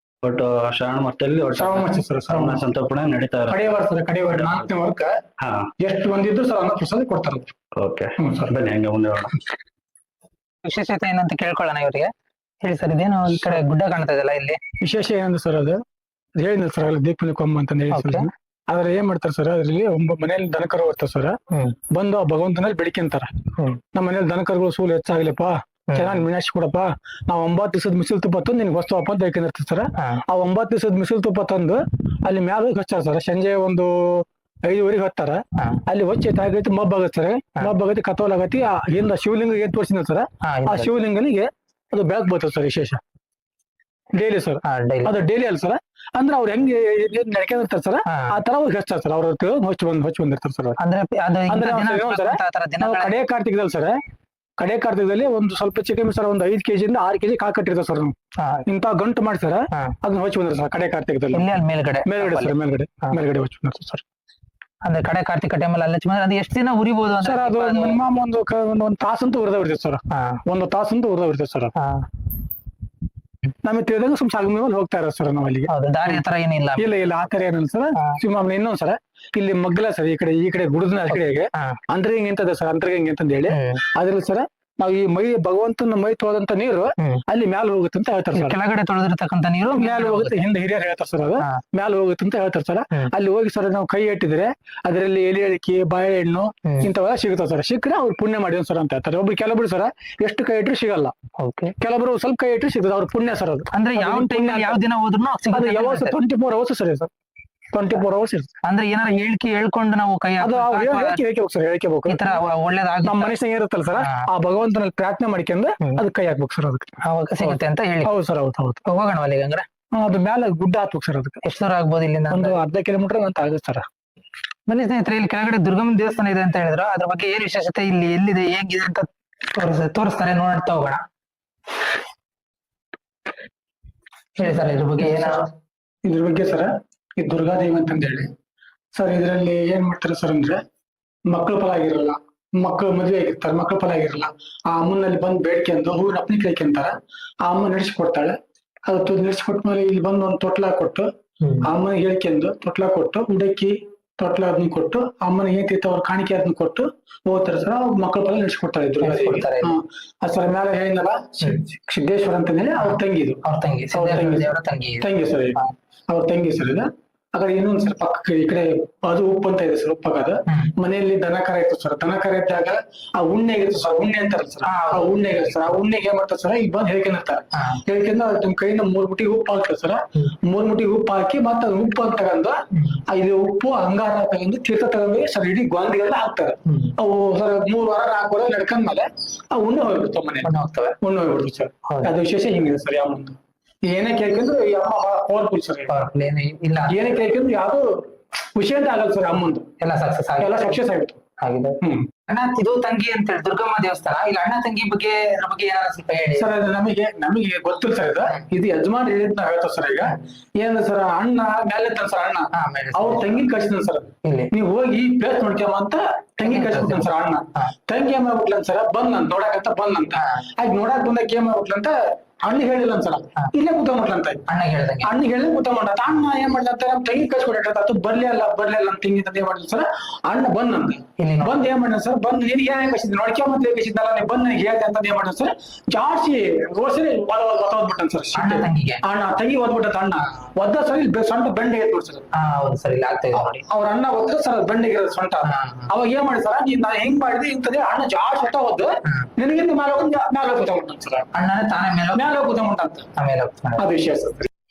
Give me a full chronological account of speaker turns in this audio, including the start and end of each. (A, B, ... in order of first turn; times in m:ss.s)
0:00.2-0:03.6 A
0:01.5-0:02.6 B
0:03.5-0:05.2 B
0:05.4-0:05.7 A
0:05.8-0:07.5 B
0:07.8-0:09.3 A
0:08.2-0:08.5 B
0:10.6-0:12.1 C
0:12.6-0:14.6 C
0:14.8-0:15.8 B
0:16.4-0:21.4 B
0:17.9-0:18.3 C
0:21.5-0:21.8 C
0:21.9-0:43.0 B
0:25.9-0:26.2 C
0:30.0-0:30.2 C
0:35.6-0:35.8 C
0:40.4-0:40.9 C
0:44.1-0:50.8 B
0:44.6-0:45.1 C
0:48.1-0:48.4 C
0:50.8-0:53.1 C
0:51.5-0:54.0 B
0:54.6-0:58.1 B
0:58.4-0:58.6 C
0:58.7-1:01.4 B
1:01.3-1:02.5 C
1:02.0-1:04.0 B
1:04.8-1:08.0 C
1:07.2-1:11.7 B
1:10.1-1:10.4 C
1:11.8-1:12.0 C
1:13.6-1:16.2 B
1:15.7-1:16.9 C
1:16.8-1:28.6 B
1:21.1-1:21.8 C
1:23.5-1:23.8 C
1:28.3-1:30.4 C
1:29.7-1:41.1 B
1:36.6-1:36.9 C
1:41.4-1:41.7 C
1:41.8-1:44.8 B
1:43.7-1:46.2 C
1:45.5-1:47.1 B
1:47.7-1:48.5 B
1:48.6-1:51.2 C
1:50.4-1:52.4 B
1:52.1-1:53.3 C
1:53.0-1:56.9 B
1:54.0-1:54.2 C
1:57.0-1:58.1 C
1:57.4-1:58.8 B
1:58.8-1:59.7 C
1:59.9-2:01.4 B
2:01.4-2:02.6 C
2:02.3-2:03.8 B
2:04.7-2:11.0 C
2:14.4-2:15.4 C
2:15.0-2:15.3 B
2:16.0-2:18.3 B
2:18.9-2:20.6 B
2:21.3-2:31.1 B
2:31.4-2:31.7 C
2:31.6-2:43.4 B
2:39.0-2:39.8 C
2:42.8-2:45.7 C
2:43.9-2:45.6 B
2:46.1-3:02.6 B
2:54.6-2:55.5 C
3:02.7-3:03.0 C
3:03.1-3:10.5 B
3:10.4-3:11.0 C
3:11.0-3:15.9 B
3:15.9-3:17.2 C
3:16.9-3:17.9 B
3:18.5-3:19.7 B
3:19.8-3:20.8 C
3:20.4-3:21.2 B
3:21.4-3:26.5 C
3:21.8-3:22.1 B
3:26.3-3:44.4 B
3:32.5-3:33.4 C
3:34.2-3:34.5 C
3:36.4-3:37.7 C
3:44.5-3:45.1 C
3:45.0-4:02.3 B
3:51.2-3:51.7 C
3:58.3-3:59.0 C
4:02.3-4:03.6 C
4:03.3-4:11.3 B
4:05.4-4:05.9 C
4:11.3-4:12.3 C
4:12.1-4:13.1 B
4:13.2-4:13.8 C
4:13.8-4:14.5 B